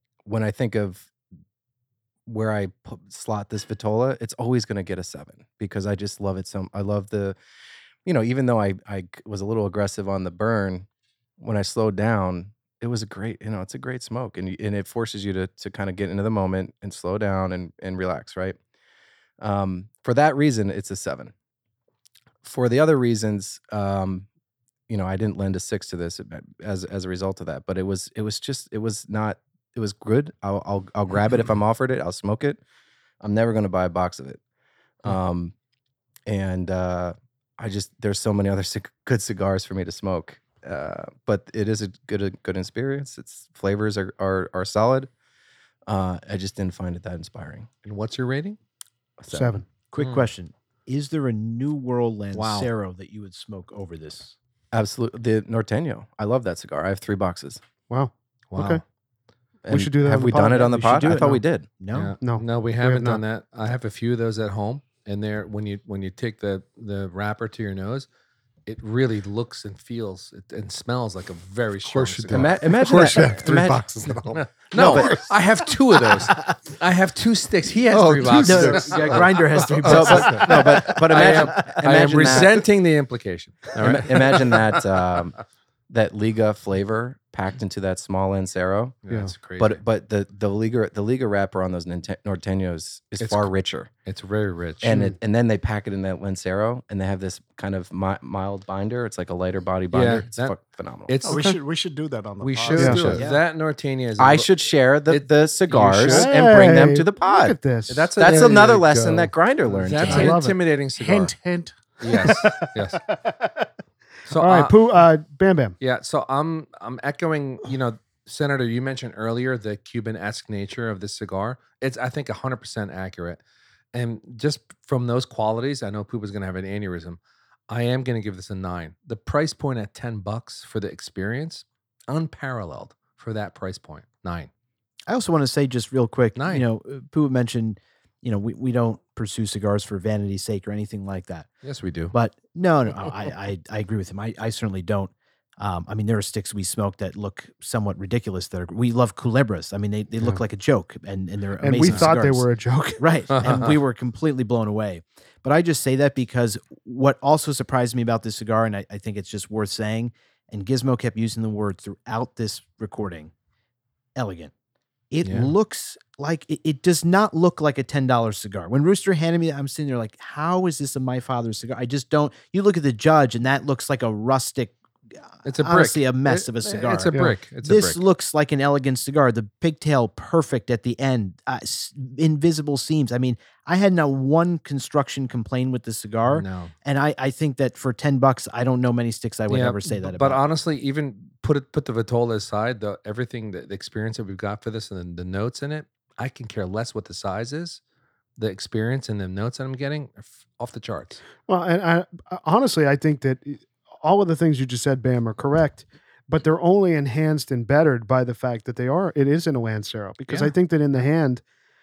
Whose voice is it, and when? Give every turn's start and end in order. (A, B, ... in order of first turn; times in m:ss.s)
0:00.2-0:01.1 A
0:02.3-0:07.4 A
0:08.0-0:10.8 A
0:11.4-0:18.6 A
0:19.4-0:21.3 A
0:22.4-0:24.3 A
0:24.9-0:32.6 A
0:33.2-0:34.4 A
0:35.0-0:35.5 A
0:36.3-0:45.1 A
0:45.9-0:47.7 A
0:47.8-0:48.6 B
0:49.2-0:49.6 A
0:49.3-0:49.6 C
0:49.9-0:54.3 D
0:50.0-0:50.3 B
0:52.3-0:52.7 B
0:54.7-0:57.6 A
0:57.9-0:58.8 C
0:58.5-0:58.8 B
0:59.6-1:01.8 A
0:59.7-1:01.4 C
1:00.3-1:02.2 D
1:01.9-1:08.1 B
1:02.2-1:03.2 C
1:08.6-1:13.3 B
1:11.8-1:15.4 E
1:12.3-1:13.8 A
1:14.4-1:25.0 B
1:14.7-1:15.2 A
1:15.9-1:16.3 E
1:17.8-1:20.8 E
1:18.4-1:22.5 D
1:19.8-1:22.6 A
1:23.7-1:29.0 A
1:29.0-1:29.8 B
1:29.6-1:33.9 A
1:33.2-1:33.5 B
1:34.0-1:35.1 B
1:34.8-1:41.2 A
1:39.9-1:40.6 B
1:41.1-1:41.6 B
1:41.2-1:43.2 F
1:41.3-1:41.6 C
1:42.4-1:46.3 B
1:42.7-1:43.0 C
1:43.0-1:43.4 D
1:44.2-1:47.6 A
1:46.0-1:48.1 C
1:47.9-1:51.3 B
1:48.2-1:50.4 A
1:48.2-1:48.7 E
1:50.0-1:50.6 C
1:50.9-1:52.0 F
1:52.0-1:53.0 B
1:52.1-1:53.6 C
1:54.3-1:54.8 B
1:54.4-1:55.8 C
1:55.8-2:03.4 B
2:03.9-2:07.2 B
2:07.7-2:14.5 B
2:15.1-2:21.6 D
2:16.4-2:16.6 B
2:21.6-2:22.1 B
2:22.1-2:32.5 D
2:31.6-2:33.0 C
2:31.8-2:32.1 B
2:33.0-2:43.3 D
2:33.3-2:33.8 B
2:44.2-2:44.5 D
2:45.1-2:54.7 D
2:45.2-2:45.5 B
2:55.3-3:10.4 D
2:55.4-2:58.0 B
3:06.3-3:06.7 B
3:09.5-3:17.8 B
3:18.4-3:21.2 B
3:21.5-3:31.4 C
3:30.3-3:30.5 B